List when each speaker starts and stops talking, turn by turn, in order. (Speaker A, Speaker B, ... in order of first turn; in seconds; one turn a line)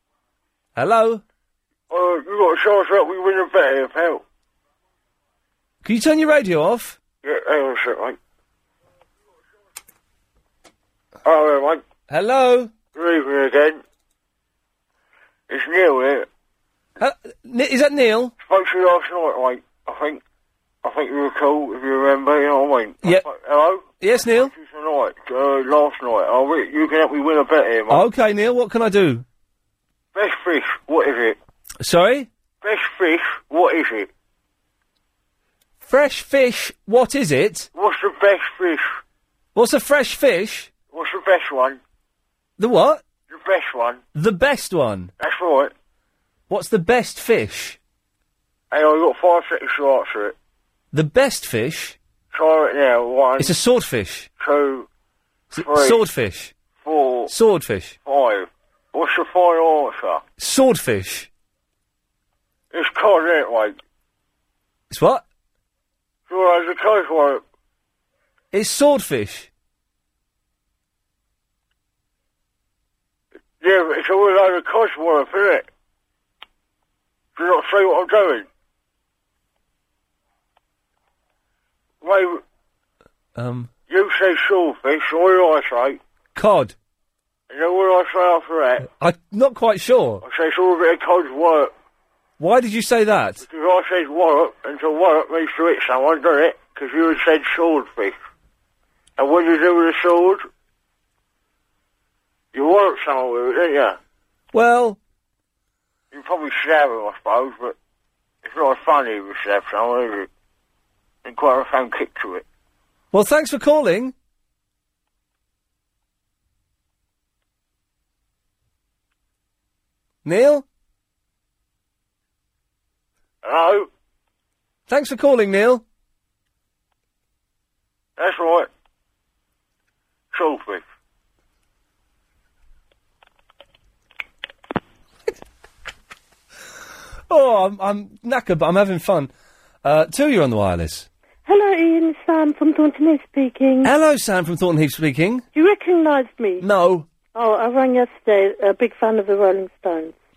Speaker A: 0.8-1.2
Speaker B: 1.9-4.2
Speaker A: 5.8-7.0
Speaker B: 7.2-8.2
Speaker B: 11.2-11.8
Speaker A: 12.1-12.7
Speaker B: 12.9-13.8
Speaker B: 15.5-16.3
Speaker A: 17.0-18.3
Speaker B: 18.4-20.2
Speaker B: 20.8-28.1
Speaker A: 24.0-24.5
Speaker A: 27.9-29.2
Speaker B: 30.1-31.4
Speaker A: 31.8-32.3
Speaker B: 32.6-34.1
Speaker A: 35.9-37.7
Speaker B: 37.8-39.0
Speaker A: 39.5-40.7
Speaker B: 40.9-41.8
Speaker A: 42.6-43.0
Speaker B: 43.3-44.0
Speaker A: 44.1-45.1
Speaker B: 45.2-45.7
Speaker A: 46.5-47.8
Speaker B: 48.7-50.4
Speaker A: 50.9-52.0
Speaker B: 52.3-53.5
Speaker A: 53.4-54.3
Speaker B: 54.4-54.9
Speaker B: 55.5-56.0
Speaker A: 55.5-56.5
Speaker B: 56.8-57.3
Speaker A: 57.3-58.0
Speaker B: 58.0-60.2
Speaker A: 60.4-61.3
Speaker B: 62.7-63.8
Speaker A: 64.9-65.2
Speaker B: 66.3-67.4
Speaker A: 68.5-69.5
Speaker B: 73.6-75.7
Speaker B: 77.4-78.5
Speaker B: 82.0-82.4
Speaker A: 83.4-83.7
Speaker B: 83.9-86.0
Speaker A: 86.3-86.8
Speaker B: 87.5-88.9
Speaker A: 88.9-90.2
Speaker B: 90.2-91.7
Speaker A: 92.4-93.5
Speaker B: 93.4-98.2
Speaker B: 99.2-100.5
Speaker B: 102.5-104.0
Speaker A: 104.5-105.0
Speaker B: 106.1-107.8
Speaker B: 108.4-110.3
Speaker B: 111.2-112.4
Speaker A: 113.1-114.1
Speaker A: 120.2-120.7
Speaker B: 123.4-123.9
Speaker A: 124.9-125.8
Speaker B: 128.2-128.7
Speaker B: 130.3-130.8
Speaker A: 137.3-139.3
Speaker A: 139.8-141.1
Speaker C: 141.5-143.9
Speaker A: 143.8-145.4
Speaker C: 145.5-146.7
Speaker A: 146.6-147.1
Speaker C: 147.3-150.2